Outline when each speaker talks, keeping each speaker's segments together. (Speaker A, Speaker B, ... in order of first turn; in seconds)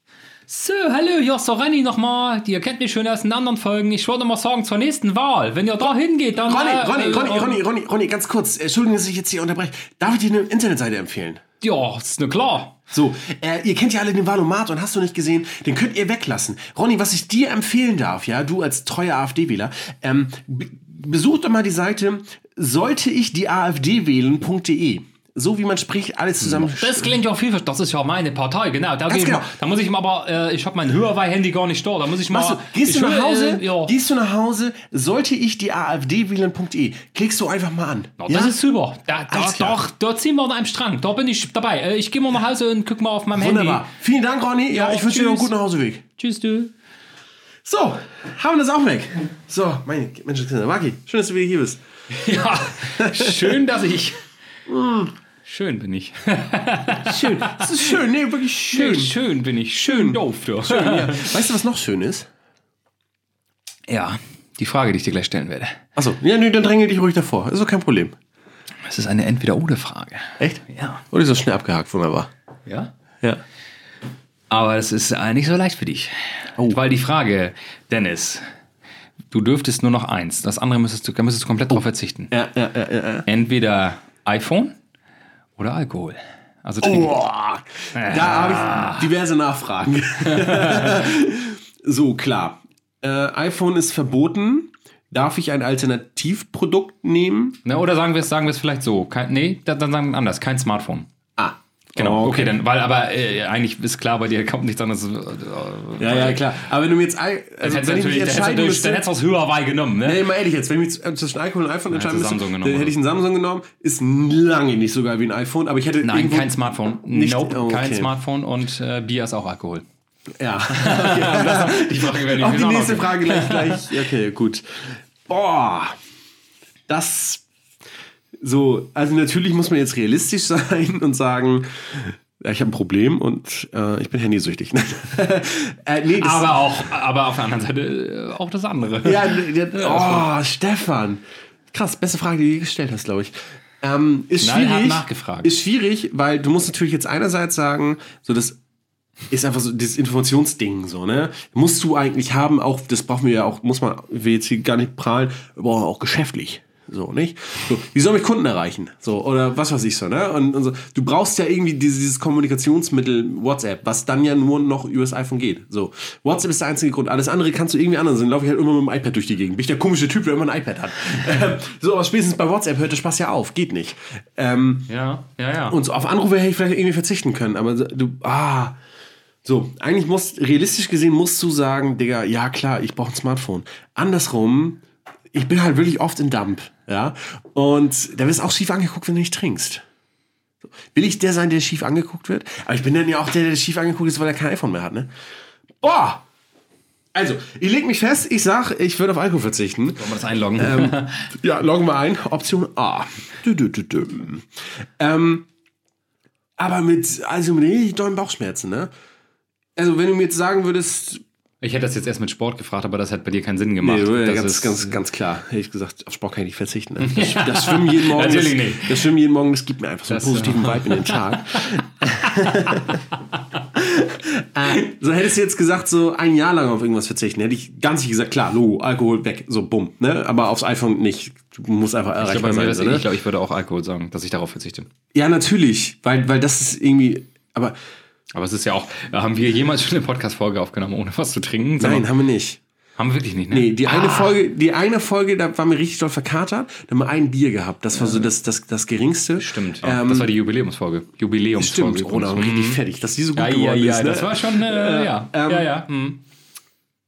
Speaker A: 0.5-7.6, 11.6-12.8, 26.4-34.0, 38.2-43.9, 44.7-45.5, 46.2-46.7, 52.1-54.2, 55.5-58.0, 58.7-61.4, 63.9-65.8, 68.9-71.0, 72.7-72.9, 74.5-78.4, 79.3-82.3, 83.3-84.8, 85.6-87.2, 87.9-89.1, 90.2-91.0, 97.7-101.1, 102.0-106.5, 107.6-110.2, 111.9-113.0, 116.0-119.8, 120.7-123.9, 136.2-140.3, 144.4-145.5, 174.9-175.8, 200.0-201.3, 211.6-215.0, 217.0-219.0, 220.1-221.6, 222.7-223.0, 232.2-234.9, 238.3-242.1, 243.0-244.4, 248.0-248.3, 249.4-252.8, 253.3-256.2
Speaker B: 6.4-11.4, 12.9-27.2, 29.1-29.5, 32.3-38.6, 39.3-39.8, 43.3-46.0, 47.6-51.8, 52.8-53.6, 54.7-55.1, 57.0-59.1, 59.8-62.3, 66.0-68.2, 70.4-72.3, 82.3-83.3, 86.8-97.6, 101.4-102.6, 106.0-109.1, 110.0-116.5, 117.1-118.1, 120.4-126.0, 126.9-127.5, 128.4-136.6, 139.0-148.6, 149.3-174.9, 175.7-178.8, 179.4-189.8, 190.8-195.1, 195.8-196.2, 197.1-204.5, 205.0-205.5, 206.6-208.9, 209.8-211.2, 213.8-223.0, 223.8-233.1, 235.1-237.8, 241.8-242.6, 243.5-250.3, 251.6-255.7